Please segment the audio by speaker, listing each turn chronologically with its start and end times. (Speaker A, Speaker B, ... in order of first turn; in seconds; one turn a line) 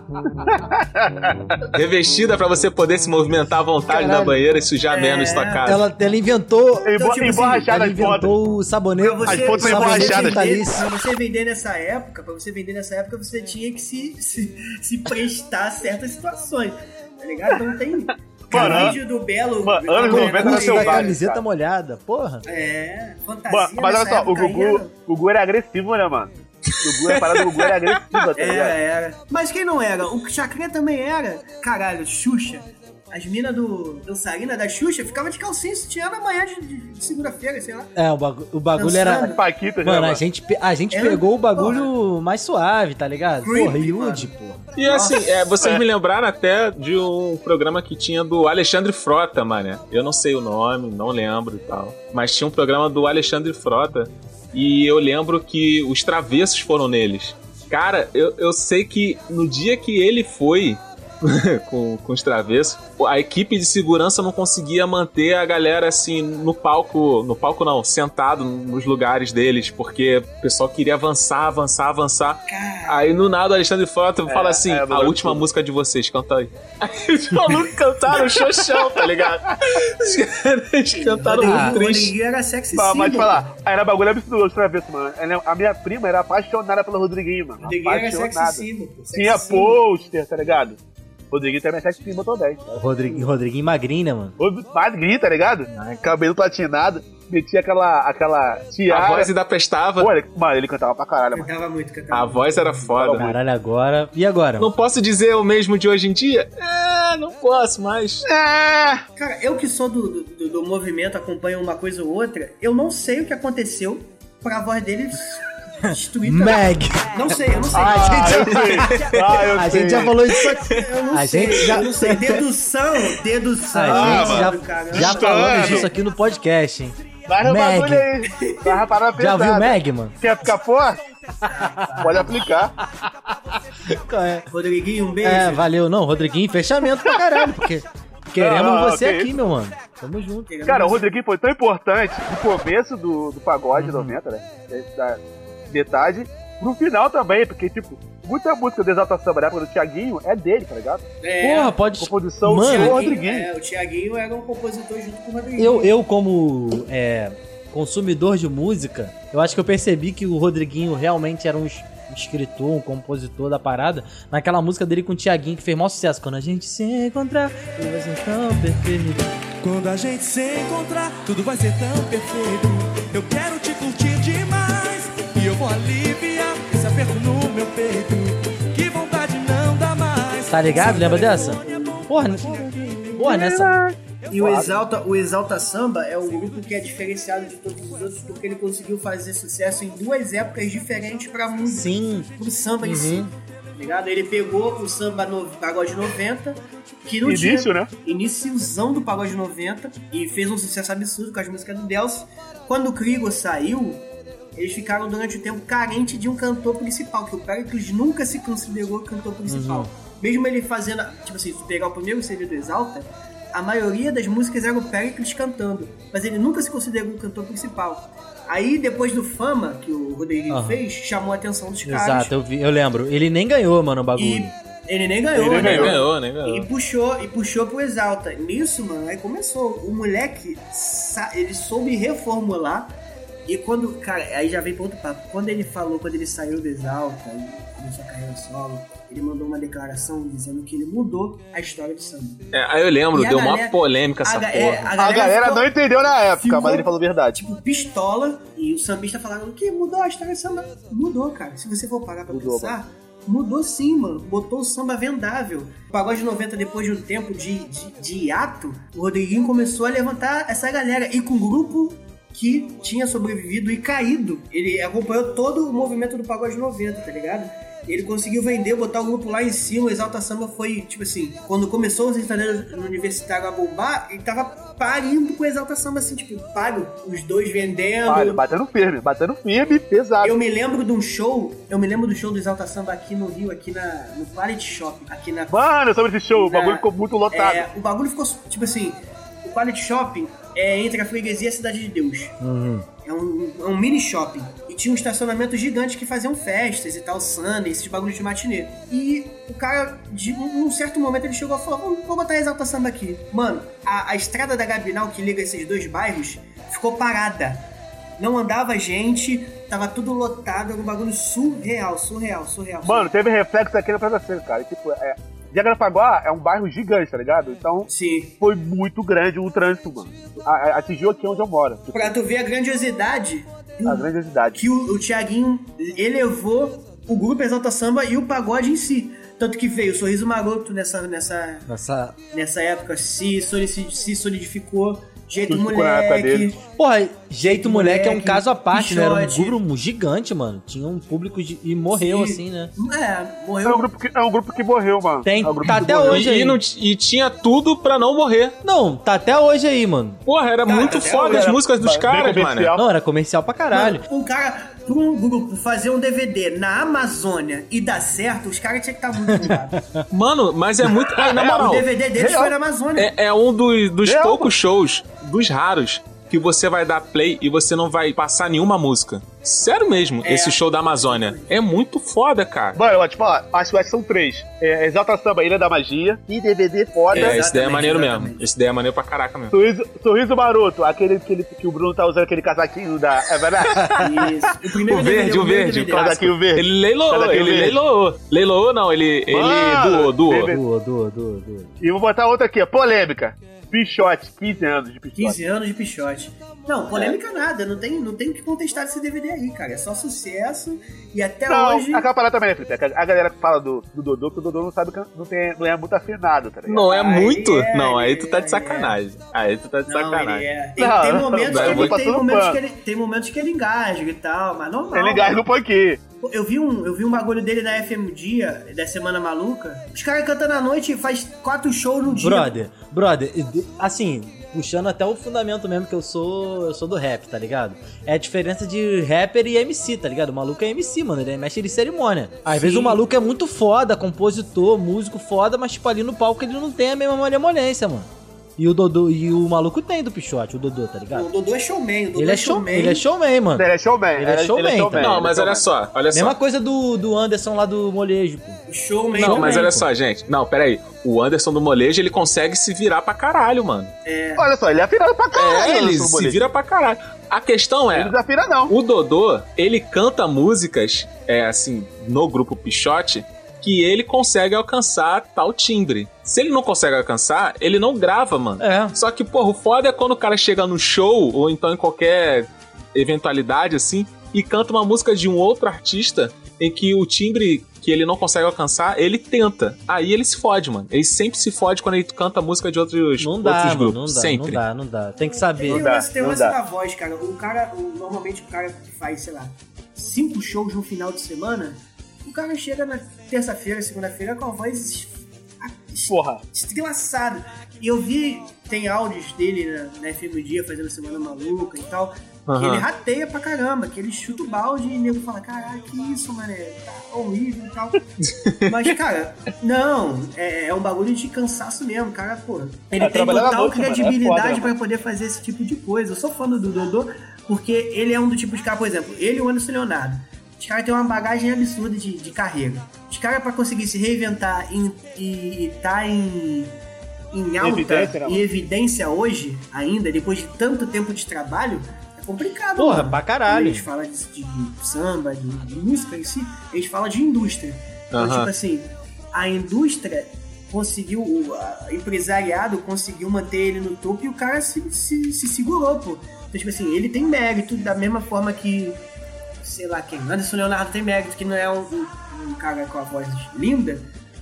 Speaker A: 0.4-1.6
Speaker B: 1.7-5.8
Speaker C: 3.9-4.4
Speaker D: 4.9-5.8
Speaker C: 5.6-6.9
Speaker A: 6.8-8.3
Speaker D: 7.0-7.9
Speaker C: 7.5-10.8
Speaker D: 9.0-21.1
Speaker A: 9.2-10.5
Speaker A: 18.5-19.0
Speaker C: 18.5-18.9
Speaker A: 19.6-21.4
Speaker C: 20.0-22.4
Speaker D: 22.5-24.9
Speaker A: 23.5-28.8
Speaker D: 28.4-37.9
Speaker C: 38.0-44.6
Speaker D: 38.8-39.4
Speaker A: 39.2-40.2
Speaker D: 40.9-41.9
Speaker D: 43.4-45.2
Speaker B: 44.8-82.1
Speaker D: 72.5-73.2
Speaker A: 74.2-75.5
Speaker D: 80.9-83.5
Speaker C: 81.4-81.8
Speaker A: 82.7-90.8
Speaker D: 87.6-89.8
Speaker A: 91.3-93.2
Speaker C: 92.7-94.3
Speaker A: 94.4-99.3
Speaker C: 95.7-96.0
Speaker B: 98.9-100.1
Speaker A: 100.0-101.5
Speaker D: 101.3-102.9
Speaker B: 102.1-103.3
Speaker A: 102.9-103.4
Speaker C: 103.1-104.7
Speaker B: 104.6-108.2
Speaker A: 108.2-109.0
Speaker D: 109.2-118.9
Speaker C: 115.8-117.1
Speaker A: 117.7-120.2
Speaker C: 117.7-122.4
Speaker D: 120.6-125.9
Speaker C: 123.7-128.1
Speaker A: 123.9-125.9
Speaker A: 127.3-131.0
Speaker D: 128.5-128.7
Speaker C: 129.2-130.1
Speaker D: 131.5-132.3
Speaker A: 132.0-132.7
Speaker C: 133.9-134.5
Speaker D: 134.5-135.7
Speaker C: 135.2-140.5
Speaker A: 137.1-137.4
Speaker A: 138.4-139.3
Speaker D: 140.5-141.1
Speaker A: 140.7-151.1
Speaker C: 143.7-144.2
Speaker D: 151.2-151.8
Speaker C: 151.4-153.2
Speaker A: 152.0-153.5
Speaker D: 152.6-155.9
Speaker C: 155.6-169.3
Speaker E: 169.6-183.1
Speaker C: 180.5-182.5
Speaker A: 180.8-184.8
Speaker C: 183.1-183.8
Speaker D: 184.3-222.3
Speaker C: 191.7-192.3
Speaker C: 192.8-193.3
Speaker A: 197.2-197.9
Speaker C: 209.5-209.9
Speaker C: 220.5-220.8
Speaker C: 221.8-224.5
Speaker D: 224.2-232.9
Speaker A: 225.3-226.0
Speaker B: 225.5-226.7
Speaker D: 233.5-242.4
Speaker B: 242.5-244.9
Speaker D: 243.1-245.7
Speaker A: 245.0-247.4
Speaker D: 246.2-278.4
Speaker A: 252.3-252.8
Speaker A: 278.1-280.4
Speaker D: 280.2-285.7
Speaker A: 285.5-287.7
Speaker D: 286.3-292.3
Speaker C: 292.4-292.8
Speaker D: 293.0-307.7
Speaker D: 308.2-313.1
Speaker A: 312.8-322.2
Speaker D: 317.9-318.3
Speaker D: 321.9-331.6
Speaker A: 323.8-324.6
Speaker C: 331.7-332.1
Speaker D: 332.3-336.6
Speaker A: 335.5-336.5
Speaker C: 336.8-342.7
Speaker D: 337.4-339.6
Speaker D: 341.9-343.9
Speaker A: 343.6-346.3
Speaker C: 345.2-346.6
Speaker B: 346.1-348.6
Speaker C: 348.6-350.2
Speaker B: 350.2-352.7
Speaker D: 350.6-351.5
Speaker A: 351.1-352.9
Speaker C: 352.8-354.0
Speaker D: 353.7-359.8
Speaker C: 359.4-360.0
Speaker B: 360.1-361.9
Speaker A: 361.0-362.5
Speaker D: 361.4-363.1
Speaker B: 362.9-372.8
Speaker A: 364.0-364.6
Speaker D: 370.2-371.6
Speaker A: 372.7-377.4
Speaker D: 377.1-378.4
Speaker B: 377.1-379.5
Speaker A: 379.5-384.0
Speaker B: 383.8-384.0
Speaker D: 384.0-386.2
Speaker B: 384.9-390.5
Speaker A: 385.9-387.8
Speaker A: 389.3-390.6
Speaker C: 390.5-391.7
Speaker A: 391.8-395.4
Speaker D: 395.1-402.0
Speaker A: 396.9-397.2
Speaker A: 401.5-406.9
Speaker B: 406.6-410.5
Speaker D: 406.8-408.9
Speaker D: 409.9-415.4
Speaker A: 410.8-412.6
Speaker B: 411.4-412.0
Speaker A: 414.9-416.0
Speaker D: 416.2-422.6
Speaker C: 422.2-441.3
Speaker D: 432.5-433.0
Speaker D: 441.1-443.1
Speaker C: 442.1-445.2
Speaker A: 443.5-445.7
Speaker B: 445.0-446.4
Speaker C: 446.1-448.6
Speaker D: 448.7-449.7
Speaker C: 449.2-449.9
Speaker B: 449.2-453.9
Speaker D: 454.0-454.5
Speaker A: 454.4-456.5
Speaker B: 455.3-458.1
Speaker A: 457.9-458.7
Speaker B: 458.7-484.6
Speaker C: 468.6-468.9
Speaker C: 483.2-485.9
Speaker D: 485.5-508.0
Speaker A: 485.7-486.6
Speaker A: 496.1-496.4
Speaker B: 502.5-502.9
Speaker B: 508.2-508.9
Speaker D: 508.6-526.7
Speaker A: 513.0-514.8
Speaker D: 527.3-549.0
Speaker A: 527.6-528.5
Speaker C: 532.8-533.9
Speaker B: 538.1-538.5
Speaker D: 549.6-554.1